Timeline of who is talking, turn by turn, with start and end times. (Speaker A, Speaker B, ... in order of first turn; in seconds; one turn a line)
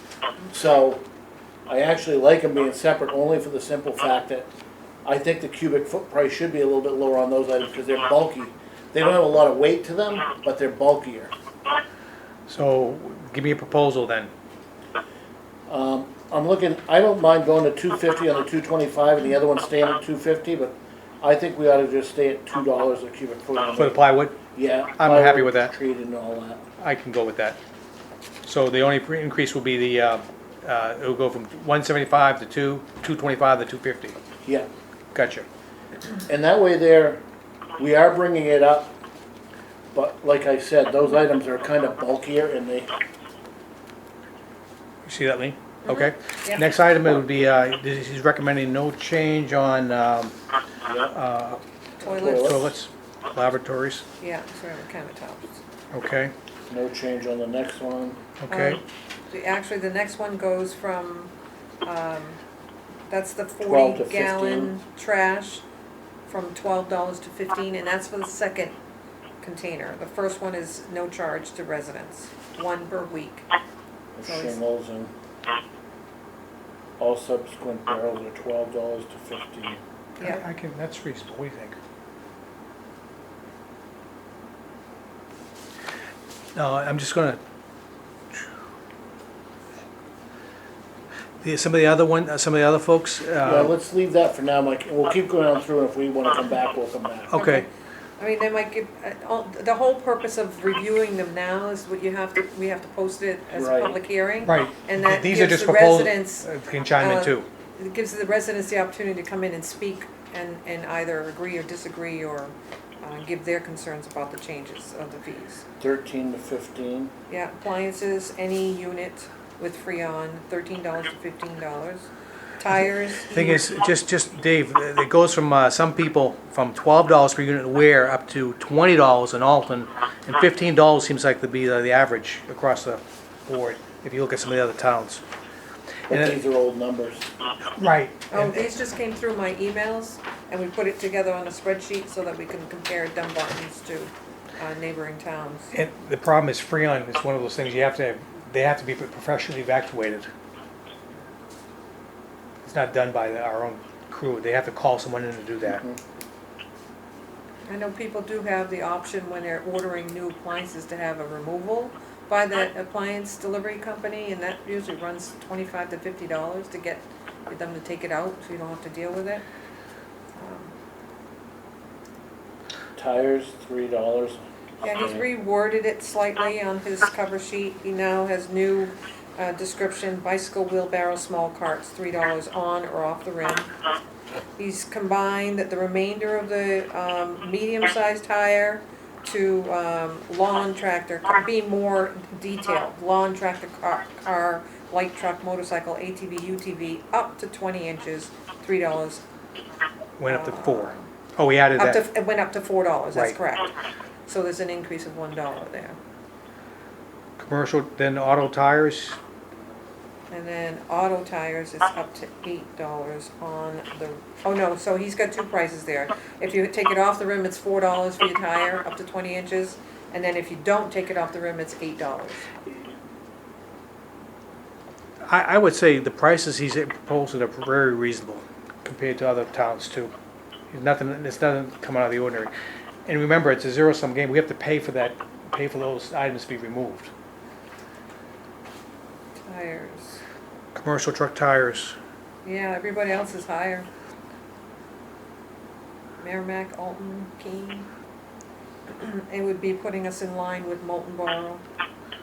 Speaker A: 0.5-1.0
Speaker A: 1.7-4.5
Speaker A: 5.0-11.3
Speaker B: 12.5-14.3
Speaker A: 15.7-26.6
Speaker B: 23.8-24.4
Speaker B: 25.0-25.7
Speaker B: 26.8-27.6
Speaker B: 28.4-34.1
Speaker A: 34.4-34.7
Speaker B: 35.1-35.5
Speaker A: 36.3-37.2
Speaker A: 37.8-39.0
Speaker A: 39.9-42.9
Speaker B: 45.0-50.3
Speaker C: 45.8-46.7
Speaker A: 50.8-51.1
Speaker B: 51.1-51.6
Speaker C: 52.0-52.7
Speaker A: 52.0-52.7
Speaker B: 52.2-54.0
Speaker C: 54.2-55.6
Speaker B: 55.9-56.3
Speaker A: 56.7-58.2
Speaker B: 58.4-58.8
Speaker C: 58.5-61.3
Speaker C: 61.8-62.4
Speaker C: 63.1-65.6
Speaker A: 63.6-64.7
Speaker C: 66.3-68.8
Speaker C: 69.4-73.5
Speaker A: 74.2-75.1
Speaker C: 74.2-74.5
Speaker A: 77.0-79.8
Speaker B: 80.2-81.8
Speaker B: 86.5-87.4
Speaker B: 91.4-93.7
Speaker A: 93.4-97.3
Speaker B: 97.3-97.6
Speaker C: 97.3-106.5
Speaker A: 103.5-104.0
Speaker B: 104.4-107.5
Speaker C: 107.0-115.6
Speaker A: 115.8-117.1
Speaker C: 117.3-123.7
Speaker B: 123.3-135.2
Speaker A: 136.1-137.3
Speaker B: 136.1-136.4
Speaker B: 137.8-138.7
Speaker C: 138.3-145.7
Speaker B: 145.7-150.3
Speaker B: 152.6-155.8
Speaker A: 155.7-156.0
Speaker C: 157.7-169.4
Speaker C: 170.3-170.7
Speaker A: 172.9-174.4
Speaker C: 174.8-183.7
Speaker A: 174.9-175.2
Speaker C: 184.6-199.2
Speaker B: 200.2-202.0
Speaker C: 200.2-201.1
Speaker C: 201.8-203.7
Speaker C: 204.3-206.0
Speaker B: 207.4-209.2
Speaker C: 210.3-222.5
Speaker B: 225.3-230.1
Speaker B: 230.7-232.5
Speaker B: 233.1-237.1
Speaker C: 239.4-240.2
Speaker B: 240.7-241.9
Speaker C: 242.4-243.9
Speaker C: 246.2-247.9
Speaker C: 248.9-251.6